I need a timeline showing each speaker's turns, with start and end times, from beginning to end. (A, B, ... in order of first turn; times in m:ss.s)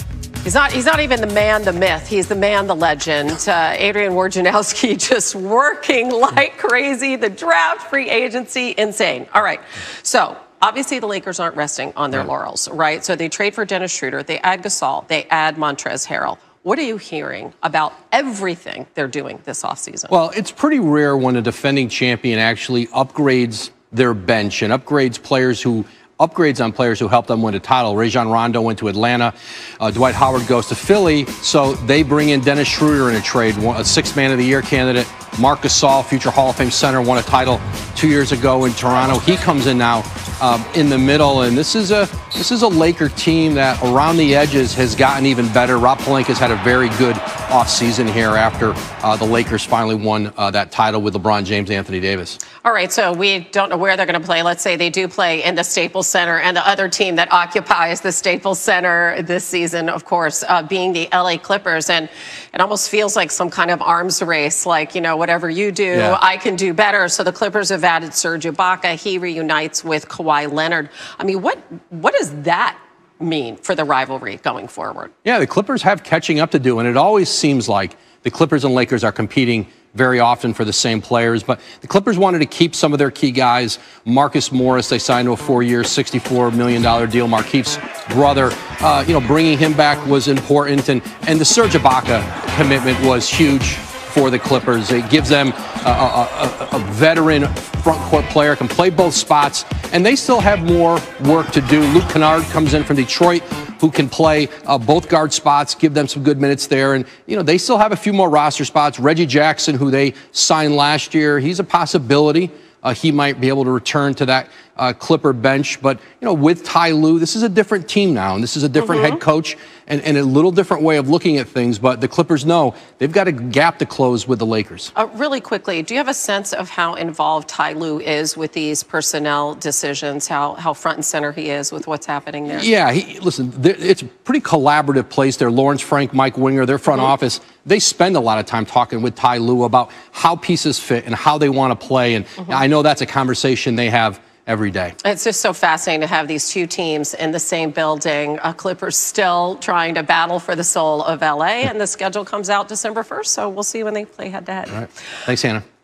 0:00.4-0:20.1 A
0:20.1-0:52.4 B
0:52.6-1:15.1 A
1:05.9-1:06.2 B
1:15.2-2:04.9 B
1:58.8-1:59.2 A
2:04.9-2:12.7 A
2:12.5-2:24.9 B
2:25.0-2:34.8 A
2:34.7-2:35.6 B